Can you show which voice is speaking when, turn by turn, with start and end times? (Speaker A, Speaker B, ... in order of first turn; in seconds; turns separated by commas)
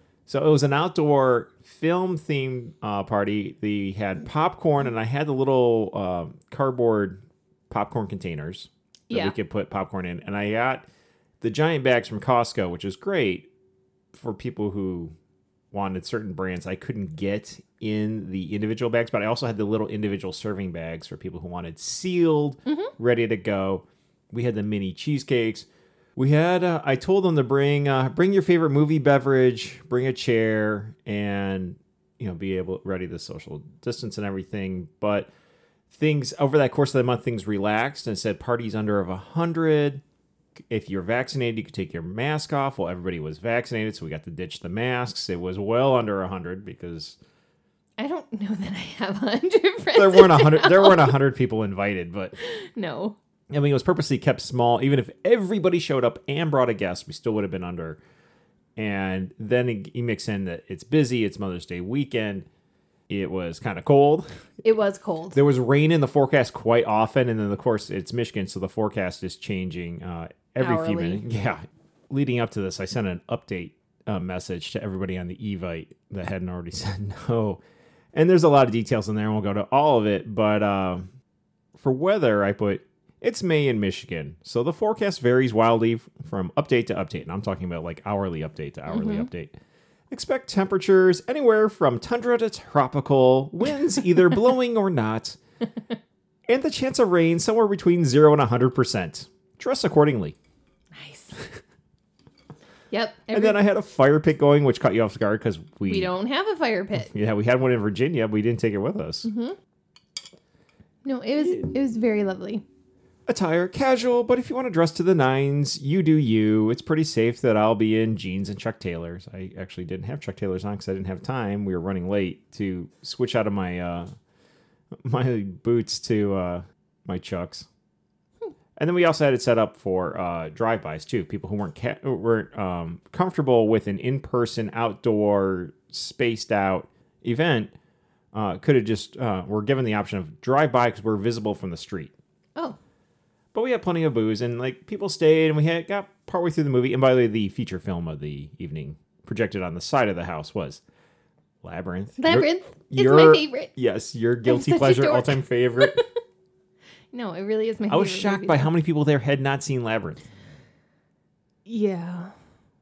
Speaker A: 0.3-10.8, Speaker B: 9.1-9.3, Speaker A: 11.4-13.5, Speaker A: 14.1-15.1, Speaker A: 15.7-35.3, Speaker A: 35.9-40.0, Speaker A: 40.7-47.2, Speaker B: 48.0-51.2, Speaker A: 49.9-52.3, Speaker B: 52.4-53.2, Speaker A: 53.5-58.0, Speaker A: 58.8-62.5, Speaker A: 63.1-64.2, Speaker B: 64.6-65.4, Speaker A: 65.3-77.6, Speaker B: 70.6-71.2, Speaker A: 78.1-81.1, Speaker A: 81.8-89.5, Speaker B: 88.9-89.3, Speaker A: 90.1-95.4, Speaker A: 96.5-100.3, Speaker B: 100.9-101.4, Speaker B: 102.9-103.6, Speaker A: 103.3-106.1, Speaker B: 105.8-107.1, Speaker A: 107.0-109.3, Speaker B: 109.2-109.6, Speaker B: 111.0-112.6, Speaker A: 113.3-124.1, Speaker A: 125.0-127.7, Speaker A: 128.8-137.7, Speaker A: 138.3-142.1, Speaker A: 143.5-150.8, Speaker A: 151.6-155.9, Speaker B: 152.2-153.7, Speaker B: 154.4-156.1, Speaker B: 157.1-158.7, Speaker A: 157.9-160.2, Speaker B: 161.7-162.3